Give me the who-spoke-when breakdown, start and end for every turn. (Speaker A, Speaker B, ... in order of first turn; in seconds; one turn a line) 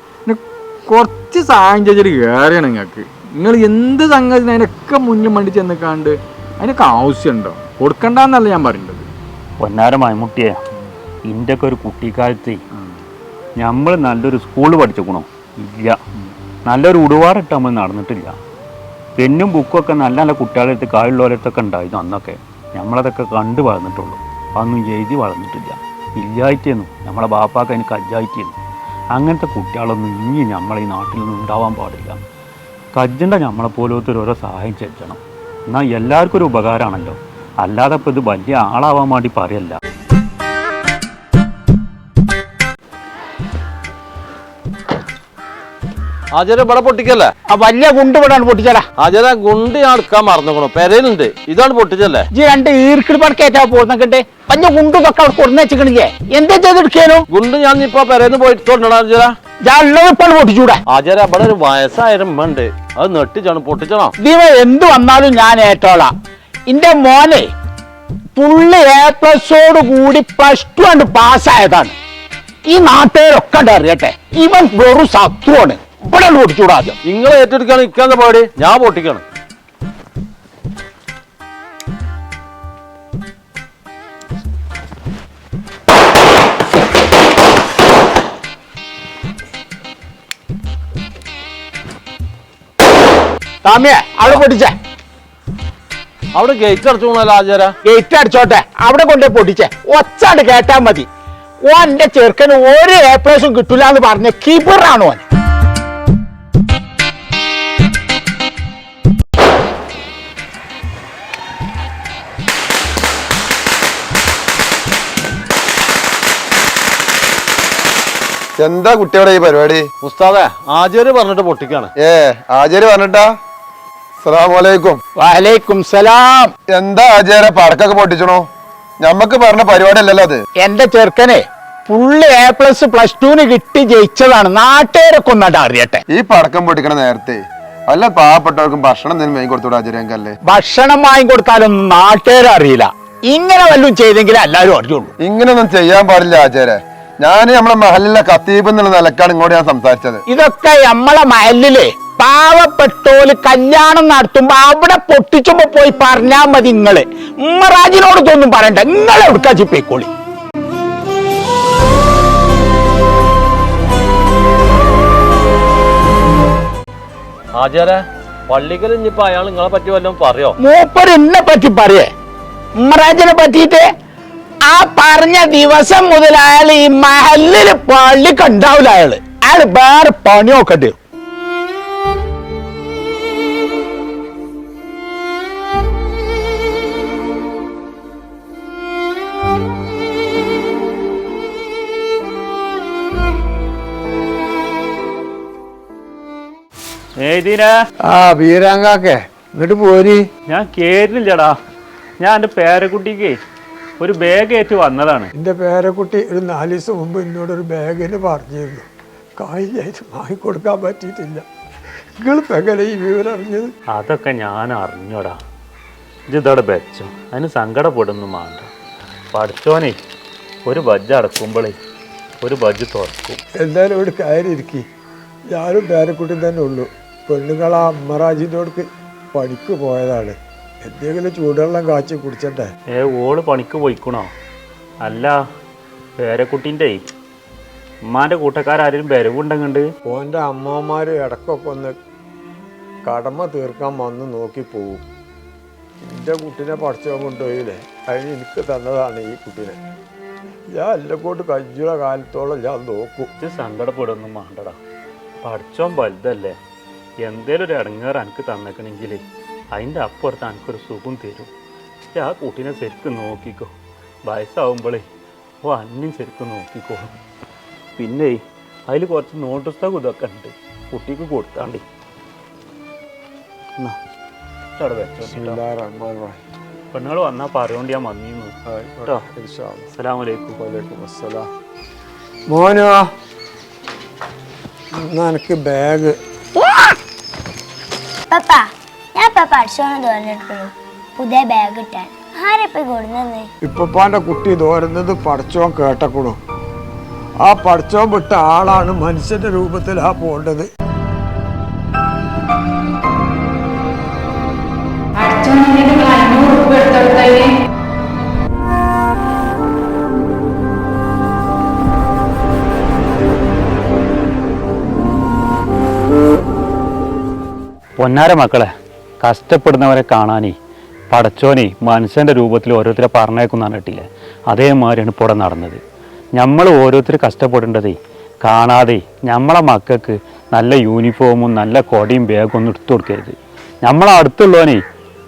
Speaker A: 0.2-9.1
Speaker B: 9.6-10.6
Speaker B: 11.3-12.6
Speaker B: 13.6-16.0
Speaker B: 16.7-18.4
Speaker B: 19.2-28.6
Speaker B: 29.1-32.2
Speaker B: 32.9-39.8
Speaker C: 46.3-47.2
Speaker D: 47.5-48.8
Speaker C: 49.0-52.2
Speaker D: 52.3-57.2
Speaker C: 57.3-59.3
Speaker D: 59.6-60.8
Speaker C: 60.9-64.0
Speaker D: 64.2-66.1
Speaker D: 66.7-67.5
Speaker D: 68.3-71.9
Speaker D: 72.7-77.0
Speaker C: 77.1-79.2
Speaker D: 93.6-94.7
Speaker C: 96.4-97.7
Speaker D: 97.8-101.1
Speaker D: 101.7-105.2
Speaker E: 118.6-119.8
Speaker C: 120.0-121.9
Speaker E: 122.0-123.3
Speaker E: 124.2-125.0
Speaker D: 125.2-126.5
Speaker E: 126.7-128.4
Speaker E: 129.0-130.4
Speaker D: 130.6-136.0
Speaker E: 136.1-140.4
Speaker D: 140.5-145.1
Speaker E: 145.2-150.2
Speaker D: 150.3-160.1
Speaker C: 167.6-168.0
Speaker C: 168.5-170.5
Speaker D: 170.6-172.1
Speaker D: 172.8-173.9
Speaker D: 174.7-180.9
Speaker B: 197.2-197.7
Speaker F: 198.1-200.2
Speaker B: 200.5-201.6
Speaker B: 202.2-203.3
Speaker B: 204.0-205.3
Speaker F: 205.3-208.8
Speaker F: 209.4-211.4
Speaker F: 212.2-213.7
Speaker B: 213.9-215.4
Speaker B: 216.3-218.7
Speaker B: 219.3-219.9
Speaker B: 220.7-221.8
Speaker B: 222.4-223.4
Speaker F: 223.6-224.8
Speaker F: 225.5-232.7
Speaker B: 232.9-234.3
Speaker B: 235.0-235.3
Speaker B: 236.2-237.0
Speaker B: 238.1-239.8
Speaker F: 240.1-241.9
Speaker F: 243.0-245.0
Speaker F: 246.0-249.8
Speaker F: 250.7-253.3
Speaker B: 253.4-254.8
Speaker B: 255.4-256.5
Speaker B: 257.2-259.2
Speaker B: 259.7-261.5
Speaker B: 262.1-263.7
Speaker B: 264.3-265.0
Speaker B: 265.6-267.1
Speaker B: 267.9-271.8
Speaker B: 274.8-275.6
Speaker F: 275.3-276.4
Speaker B: 276.9-278.5
Speaker F: 278.7-279.9
Speaker B: 279.9-280.6
Speaker F: 280.6-281.5
Speaker F: 282.5-283.1
Speaker F: 285.1-286.1
Speaker G: 288.3-293.5
Speaker F: 293.6-296.4
Speaker F: 297.4-300.7
Speaker H: 305.2-307.5
Speaker B: 318.0-318.7
Speaker B: 319.2-320.6
Speaker B: 321.1-325.8
Speaker B: 326.4-334.8